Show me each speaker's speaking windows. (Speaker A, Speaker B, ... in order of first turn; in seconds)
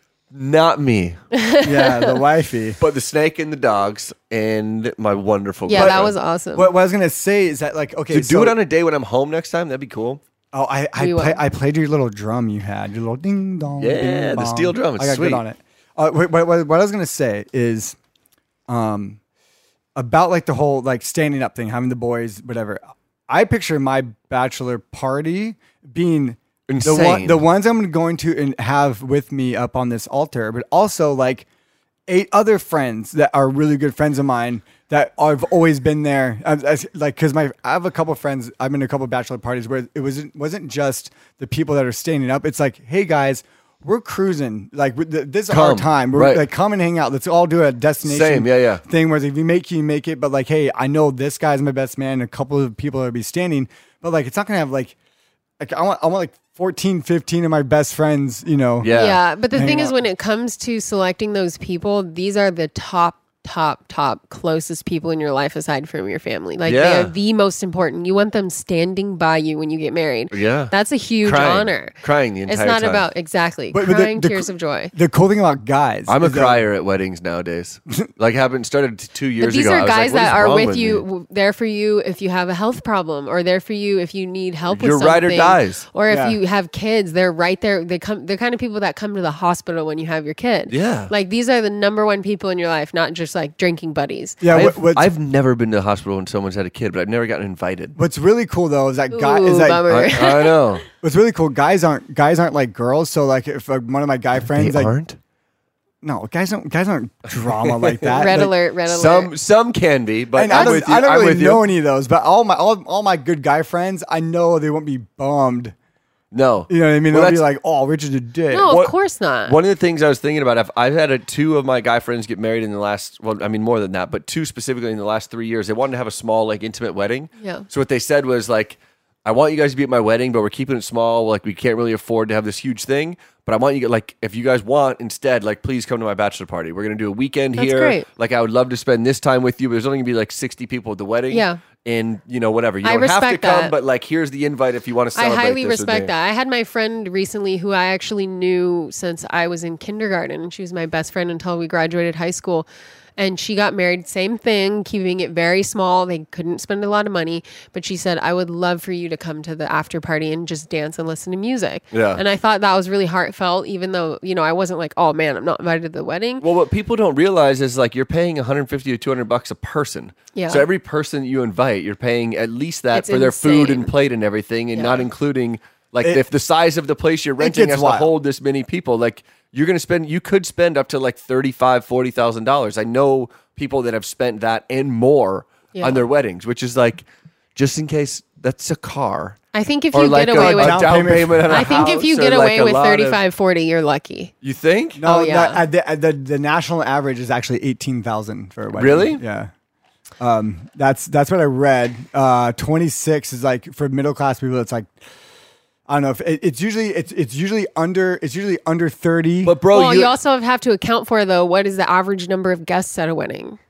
Speaker A: 0.3-1.2, 2.8-6.1, 8.1-10.2, 13.8-15.4, 26.7-27.4, 45.5-46.5, 48.0-48.8, 58.8-59.2, 66.7-67.1, 70.3-73.0, 76.1-81.0, 84.7-85.8, 90.7-91.1, 94.5-98.0, 99.9-100.8, 104.4-105.2, 107.3-111.6, 116.3-117.5, 118.7-118.9, 119.5-146.1, 161.9-162.2, 166.4-189.4, 189.9-193.2, 194.4-195.0, 198.8-199.2, 209.4-210.1
Speaker B: 1.3-2.2, 5.7-6.7, 11.0-11.4, 58.9-74.9, 79.4-94.4, 99.1-100.6, 108.2-109.3, 110.5-110.8, 118.5-119.6, 127.4-127.7, 137.6-138.1, 141.3-141.6, 142.8-143.7, 145.2-166.4, 170.3-170.7, 172.9-173.9, 174.7-175.1, 185.7-186.0, 189.5-194.3, 195.0-195.6, 209.7-213.6
Speaker C: 1.6-2.8, 5.7-8.6, 10.5-18.0, 18.7-19.2, 19.9-31.5, 32.1-55.0, 55.6-58.9, 59.5-60.0, 73.7-76.6, 86.1-86.4, 94.4-95.1, 98.0-100.0, 101.0-104.9, 106.0-108.5, 110.3-115.8, 116.7-118.8, 177.4-178.1, 190.3-192.0, 195.0-199.5, 200.2-204.9, 205.9-209.6